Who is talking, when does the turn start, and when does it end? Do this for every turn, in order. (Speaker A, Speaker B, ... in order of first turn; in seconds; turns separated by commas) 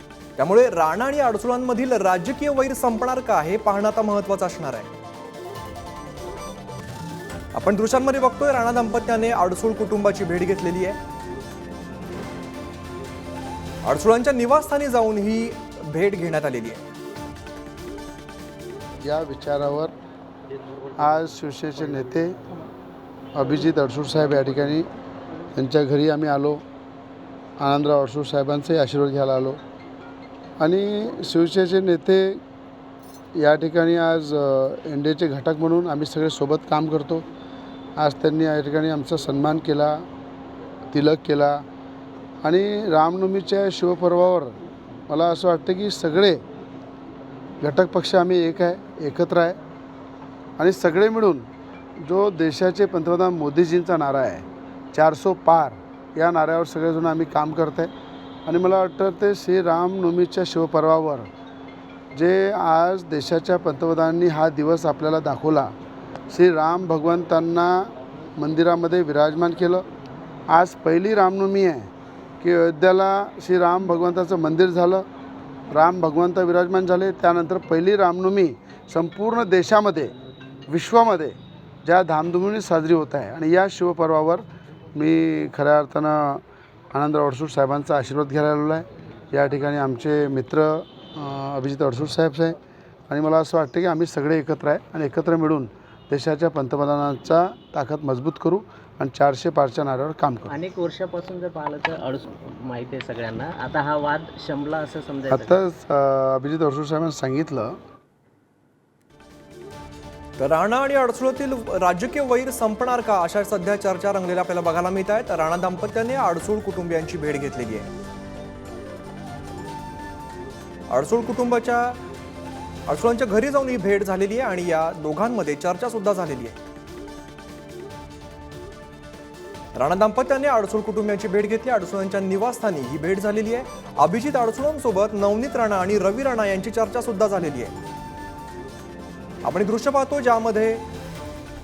Speaker A: 0.4-4.9, Speaker A: 7.5-11.0, Speaker A: 13.8-16.8, Speaker B: 19.0-19.9, Speaker C: 20.5-21.4, Speaker B: 21.0-22.4, Speaker C: 22.0-22.4, Speaker B: 23.3-24.9, Speaker B: 25.5-26.6, Speaker B: 27.6-29.6, Speaker B: 30.6-32.4, Speaker B: 33.3-37.2, Speaker B: 38.0-40.1, Speaker B: 40.9-41.6, Speaker B: 42.4-44.6, Speaker B: 45.1-46.4, Speaker B: 47.6-49.6, Speaker B: 50.6-51.5, Speaker B: 52.0-57.9, Speaker B: 58.5-61.3, Speaker B: 62.1-65.7, Speaker B: 66.3-69.9, Speaker B: 70.5-71.9, Speaker B: 72.4-75.0, Speaker B: 75.7-80.1, Speaker B: 80.7-86.4, Speaker B: 86.9-92.6, Speaker B: 93.1-100.5, Speaker C: 100.5-105.5, Speaker B: 105.3-107.8, Speaker A: 110.4-117.9, Speaker A: 120.9-122.0, Speaker A: 122.9-126.6, Speaker A: 129.8-137.7, Speaker A: 139.4-140.8